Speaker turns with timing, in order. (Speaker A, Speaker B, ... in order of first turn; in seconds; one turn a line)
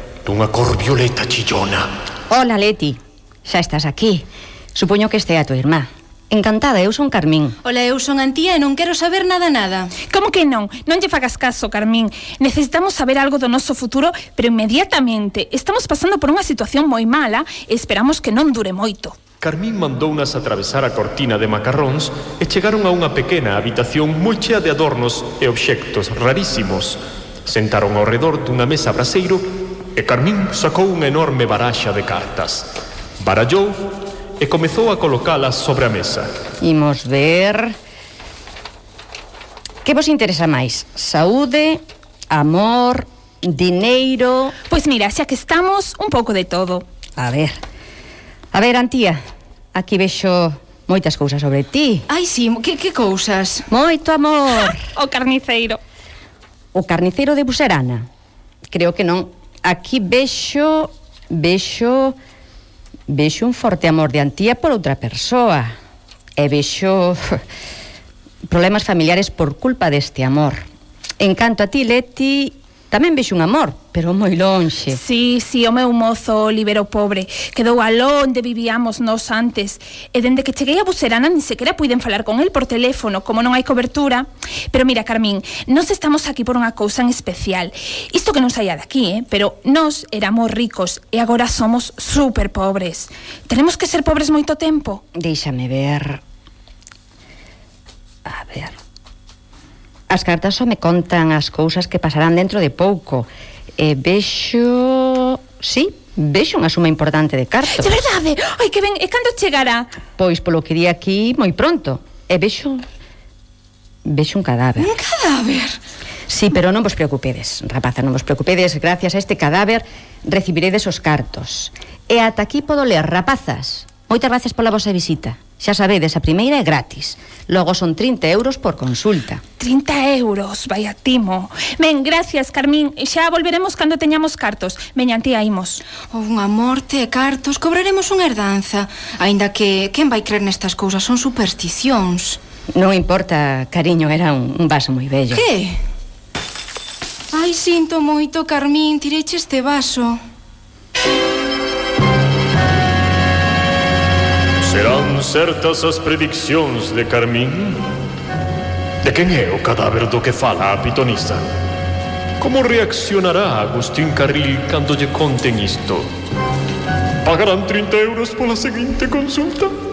Speaker A: 0.2-1.9
Speaker B: 2.3-7.6
Speaker C: 7.7-9.9
Speaker D: 10.1-19.2
Speaker A: 19.4-33.8
Speaker A: 34.4-36.3
Speaker B: 36.6-37.8
Speaker B: 39.8-44.5
Speaker D: 44.7-46.8
Speaker B: 47.2-47.6
Speaker B: 48.5-49.2
Speaker B: 49.7-52.1
Speaker C: 52.1-53.7
Speaker B: 53.7-54.8
Speaker D: 54.5-55.8
Speaker B: 56.7-58.1
Speaker B: 58.7-62.2
Speaker B: 63.1-65.7
Speaker B: 66.4-67.4
Speaker B: 68.5-70.7
Speaker B: 71.2-75.0
Speaker D: 74.9-95.0
Speaker B: 95.2-96.2
Speaker B: 98.3-98.8
Speaker B: 100.1-108.0
Speaker D: 107.7-109.9
Speaker B: 110.2-112.8
Speaker B: 114.0-114.9
Speaker C: 114.8-115.8
Speaker B: 116.3-129.4
Speaker D: 129.6-135.8
Speaker C: 136.0-142.4
Speaker B: 142.7-145.4
Speaker C: 145.3-145.8
Speaker C: 147.3-150.2
Speaker A: 154.6-157.8
Speaker A: 159.0-161.4
Speaker A: 162.4-166.1
Speaker A: 167.2-169.7